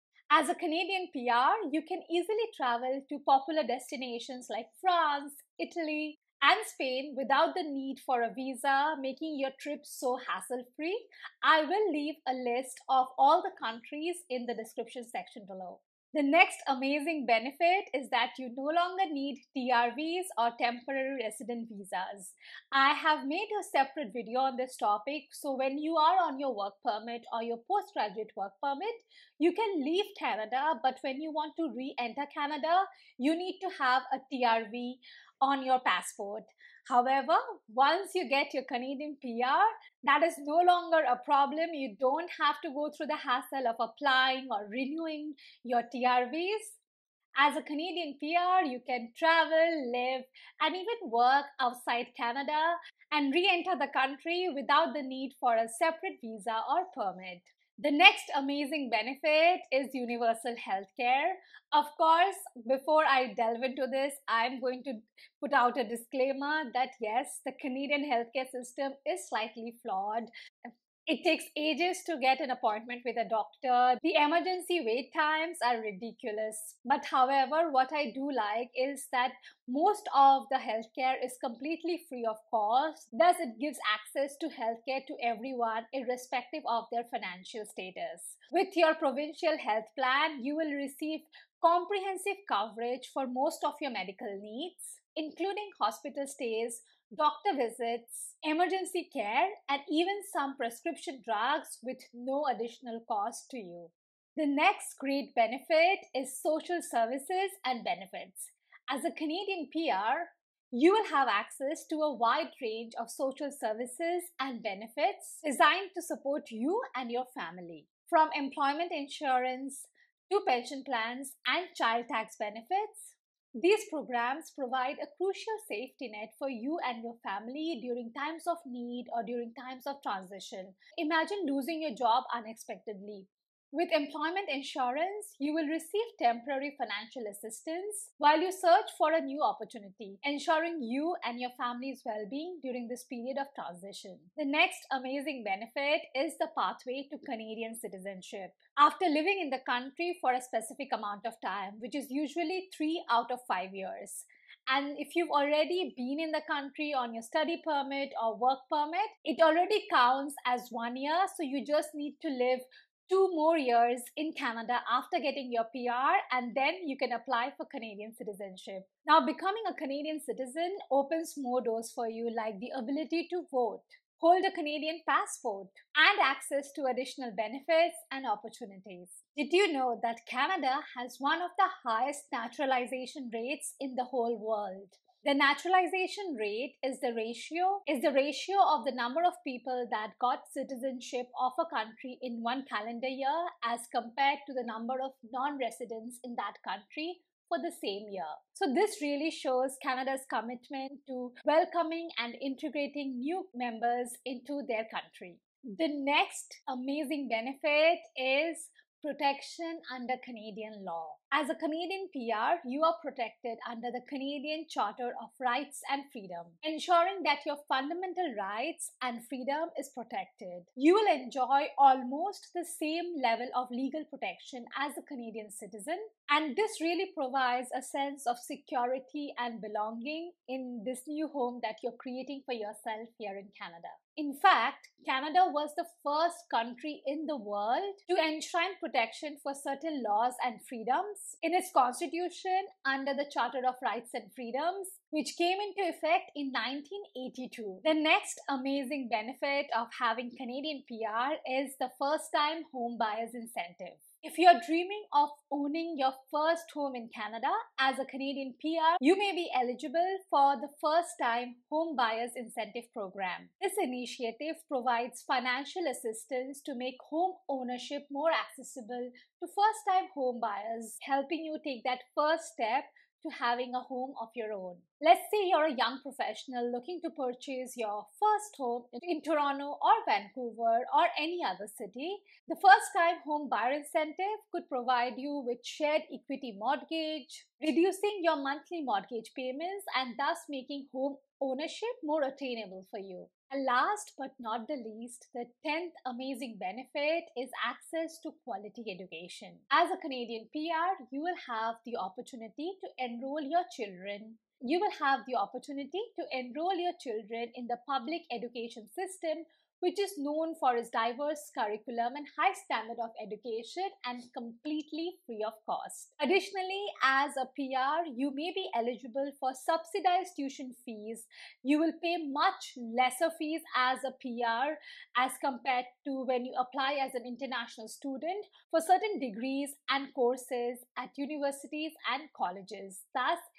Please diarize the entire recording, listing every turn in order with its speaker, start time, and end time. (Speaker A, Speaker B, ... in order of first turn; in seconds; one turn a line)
Speaker A: 0.3-46.8
Speaker A: 47.4-333.4